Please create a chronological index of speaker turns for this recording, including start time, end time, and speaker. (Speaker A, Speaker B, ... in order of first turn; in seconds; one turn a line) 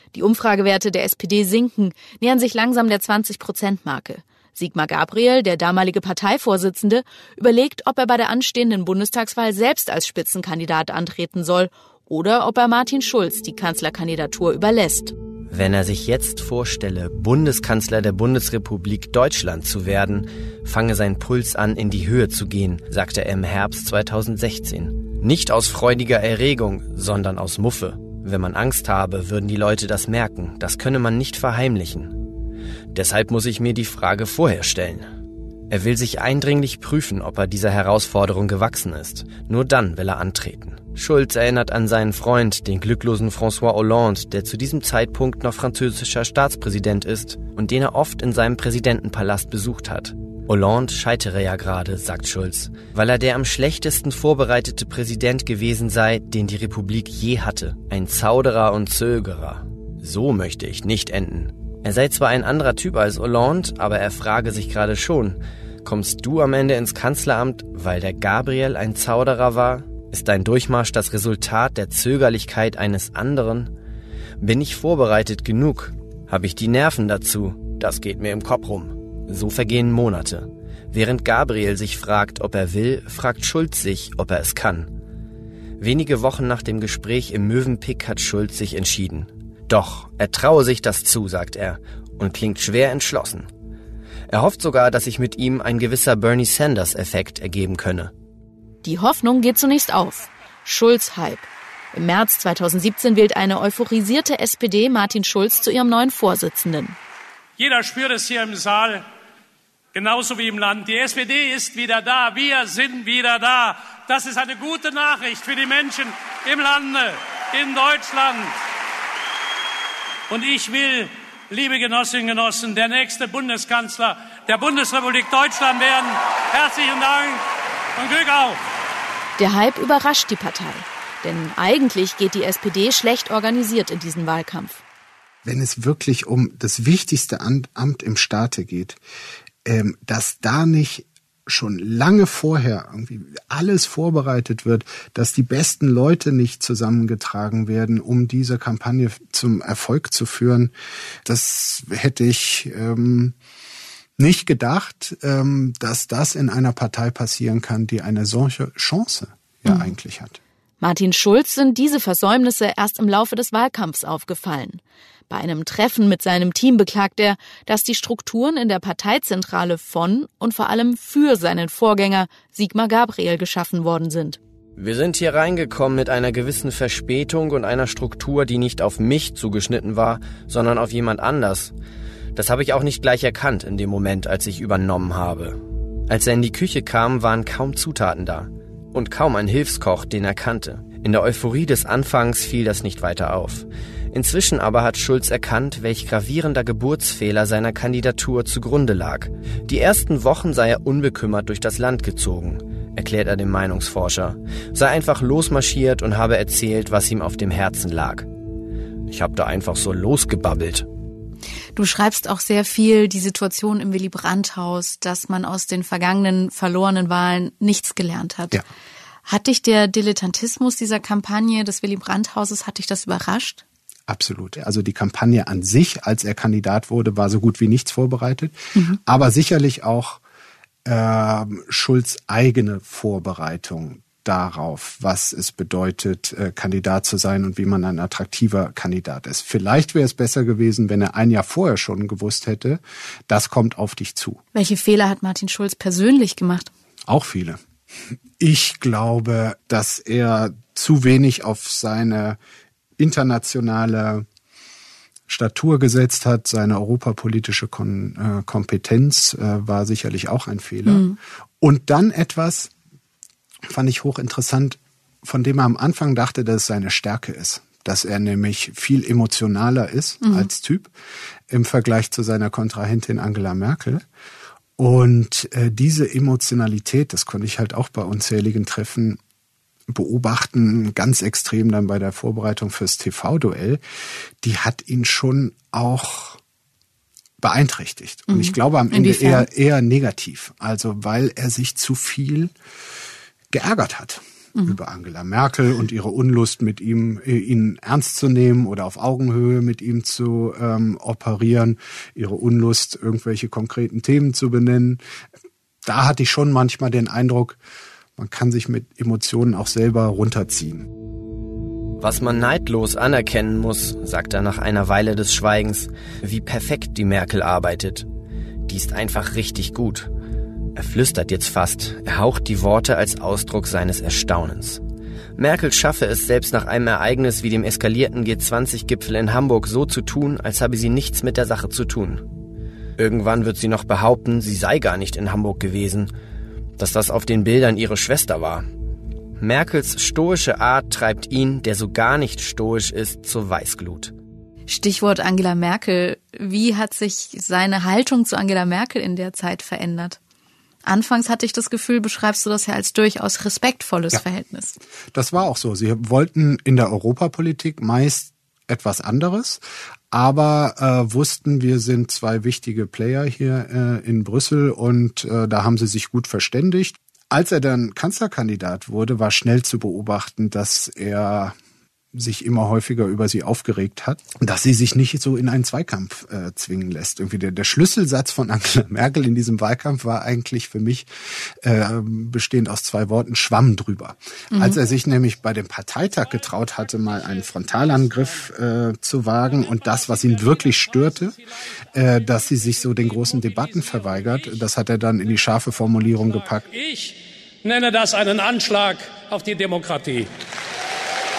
Speaker A: 0.1-15.2
Speaker B: 15.5-32.2
Speaker B: 32.9-35.1
Speaker B: 35.7-73.7
Speaker B: 74.4-84.9
Speaker B: 85.8-93.5
Speaker B: 94.3-98.1
Speaker A: 98.8-107.0
Speaker C: 107.6-109.1
Speaker C: 109.9-118.5
Speaker C: 120.3-127.4
Speaker C: 128.0-128.6
Speaker A: 129.4-134.8
Speaker D: 135.4-139.0
Speaker D: 139.7-150.7
Speaker D: 151.2-153.4
Speaker D: 154.2-160.4
Speaker A: 160.8-174.4
Speaker B: 174.8-181.7
Speaker B: 182.3-208.3
Speaker B: 209.1-210.9
Speaker A: 211.8-218.6
Speaker A: 219.3-223.6
Speaker D: 224.1-230.2
Speaker D: 230.8-244.4
Speaker A: 244.5-246.7
Speaker D: 247.1-247.6
Speaker D: 248.4-252.4
Speaker D: 253.0-254.3
Speaker D: 255.3-262.7
Speaker A: 260.9-261.2
Speaker D: 263.7-270.9
Speaker A: 270.2-270.5
Speaker D: 271.5-274.0
Speaker D: 274.8-279.2
Speaker D: 279.9-283.8
Speaker D: 284.4-286.4
Speaker D: 287.4-292.5
Speaker A: 288.3-289.5
Speaker D: 293.5-305.0
Speaker D: 305.9-307.6
Speaker D: 308.2-310.9
Speaker B: 312.0-318.1
Speaker B: 318.7-320.1
Speaker B: 320.8-324.8
Speaker B: 325.4-332.2
Speaker B: 333.0-336.1
Speaker B: 336.8-338.6
Speaker B: 339.4-344.1
Speaker A: 344.7-350.2
Speaker A: 350.9-354.8
Speaker D: 355.1-371.6
Speaker D: 372.1-391.4
Speaker A: 384.5-384.8
Speaker C: 386.3-388.5
Speaker C: 389.4-394.7
Speaker D: 391.9-396.7
Speaker C: 395.4-400.3